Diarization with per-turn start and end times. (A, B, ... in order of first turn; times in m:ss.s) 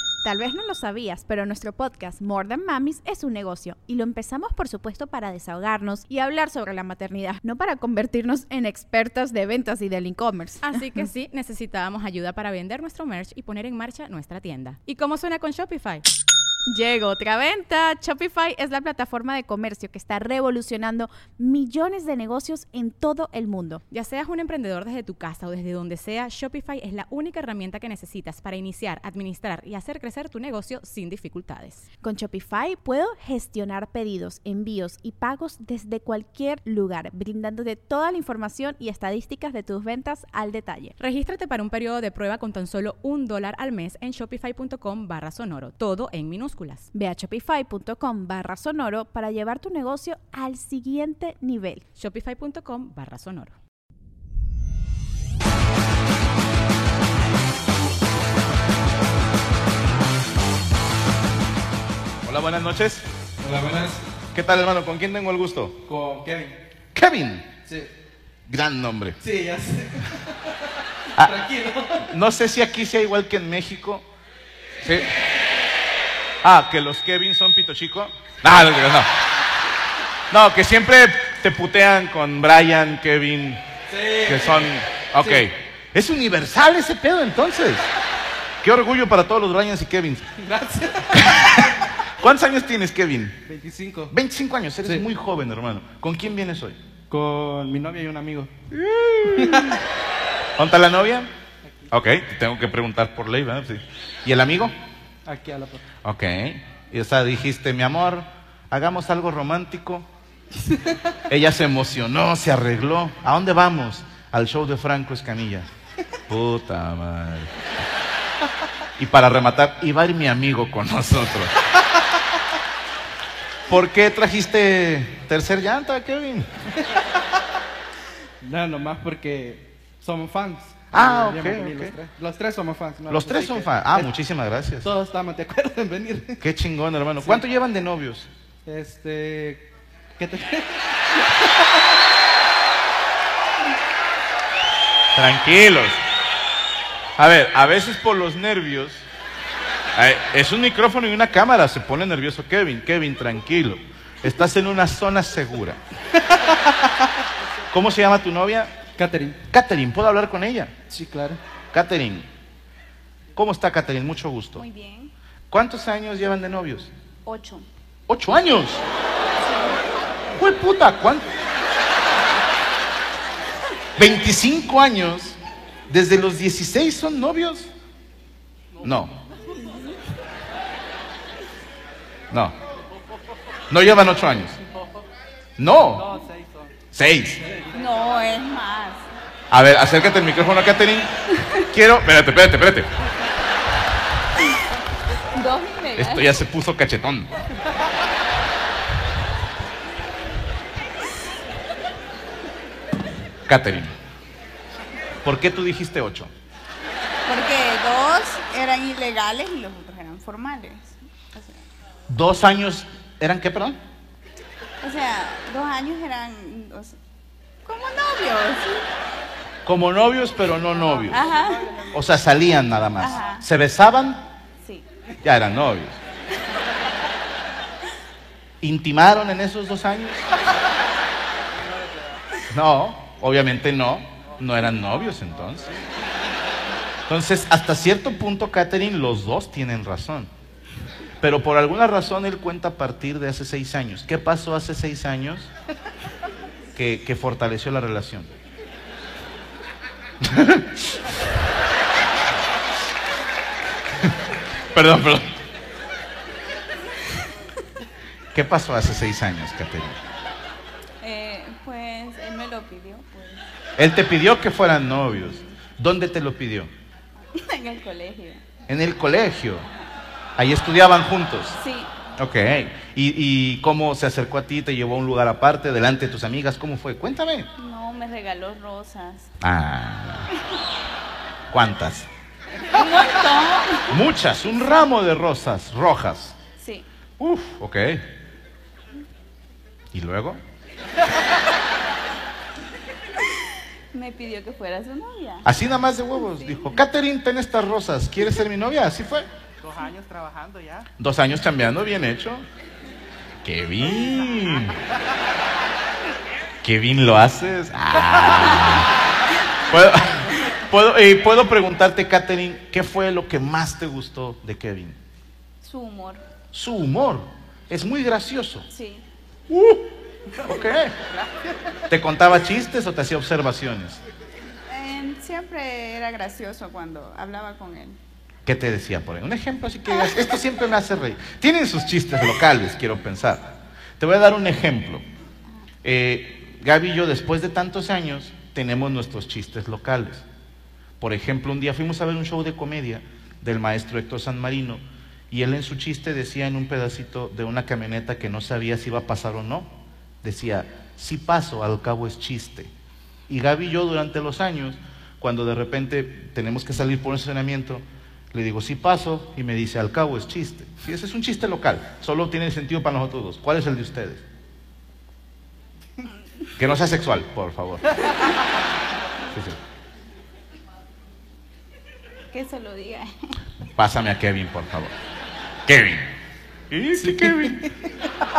0:00.2-0:10.8 A
0:10.6-0:16.0 B
0:16.7-0:23.8 A
0:23.9-0:31.9 B
0:32.0-0:41.0 A
0:41.0-0:46.9 B
0:46.9-0:51.8 A
0:52.0-0:53.6 B
1:02.2-1:03.0 C
1:03.4-1:04.0 D
1:04.4-1:05.8 C
1:05.9-1:06.6 D
1:07.0-1:07.5 C
1:08.5-1:09.2 C
1:09.2-1:10.6 D
1:11.2-1:12.1 D
1:12.1-1:14.0 C
1:16.4-1:19.1 C
1:20.3-1:23.6 C
1:23.9-1:24.7 D
1:24.3-1:27.9 C
1:25.2-1:25.5 D
1:28.6-1:30.3 C
1:30.4-1:31.7 D
1:31.2-1:33.4 C
1:33.5-1:34.1 D
1:34.1-1:36.8 C
1:37.1-1:38.5 D
1:38.7-1:39.8 C
1:39.4-1:39.8 D
1:40.6-1:41.3 C
1:41.9-1:44.8 C
1:45.3-1:45.8 D
1:46.0-1:50.1 C
1:50.6-1:51.0 D
1:51.3-1:55.7 C
1:56.3-1:57.5 C
1:59.0-2:01.5 C
2:03.7-2:06.5 C
2:06.9-2:07.2 D
2:08.4-2:14.1 D
2:10.9-2:12.0 C
2:13.1-2:14.9 C
2:14.8-2:16.4 D
2:16.4-2:18.3 C
2:18.7-2:19.7 D
2:20.2-2:21.9 D
2:25.1-2:26.0 C
2:27.2-2:29.0 C
2:30.0-2:35.8 C
2:36.2-2:37.2 D
2:37.7-2:38.8 C
2:39.0-2:39.4 D
2:39.5-2:40.8 C
2:40.9-2:41.4 D
2:41.7-2:42.3 C
2:43.4-2:44.6 C
2:44.6-2:45.1 E
2:45.5-2:46.9 C
2:47.2-2:47.7 E
2:48.1-2:48.8 C
2:49.4-2:49.8 E
2:50.4-2:51.3 C
2:54.0-2:55.4 C
2:55.9-2:57.7 C
2:58.8-2:59.1 C
2:59.7-2:59.9 E
3:03.7-3:04.6 C
3:05.6-3:06.1 C
3:06.0-3:06.8 D
3:06.9-3:07.4 C
3:07.5-3:07.8 D
3:07.7-3:09.1 E
3:09.5-3:11.1 C
3:11.4-3:11.7 E
3:11.7-3:12.9 C
3:15.3-3:16.3 E
3:16.0-3:17.3 C
3:23.5-3:24.0 C
3:25.2-3:26.3 C
3:27.3-3:31.6 E
3:32.1-3:33.8 C
3:34.8-3:37.0 E
3:37.6-3:38.8 E
3:39.7-3:41.2 C
3:41.1-3:41.8 E
3:41.9-3:44.2 C
3:43.0-3:43.4 E
3:45.2-3:46.0 C
3:48.6-3:50.3 C
3:52.5-3:55.7 C
3:57.1-4:00.3 C
4:01.2-4:05.5 C
4:06.8-4:08.3 C
4:10.2-4:10.9 C
4:14.7-4:15.3 C
4:18.3-4:20.0 C
4:21.0-4:23.4 E
4:23.8-4:26.7 C
4:27.3-4:28.4 E
4:28.7-4:29.6 C
4:30.4-4:31.6 C
4:31.6-4:31.9 E
4:32.2-4:37.5 C
4:37.6-4:39.3 E
4:39.4-4:40.3 C
4:41.5-4:42.1 C
4:42.7-4:44.0 E
4:43.9-4:46.4 C
4:46.6-4:46.9 E
4:47.2-4:48.1 C
4:49.9-4:50.4 C
4:53.9-4:55.5 E
4:55.4-4:59.3 C
4:56.2-4:56.8 E
4:59.6-5:00.9 D
5:01.0-5:02.4 C
5:03.4-5:04.8 C
5:06.6-5:08.9 C
5:09.7-5:15.0 C
5:15.6-5:16.2 E
5:16.5-5:18.7 C
5:18.7-5:19.0 E
5:19.5-5:21.0 C
5:21.9-5:24.0 C
5:24.7-5:28.0 E
5:28.5-5:35.0 C
5:35.8-5:40.2 C
5:41.0-5:49.7 C
5:50.2-5:52.7 C
5:53.3-6:04.2 C
6:06.6-6:08.0 C
6:09.3-6:09.6 C
6:12.3-6:13.1 E
6:13.8-6:14.9 C
6:15.7-6:16.1 C
6:16.7-6:17.6 C
6:17.0-6:17.7 D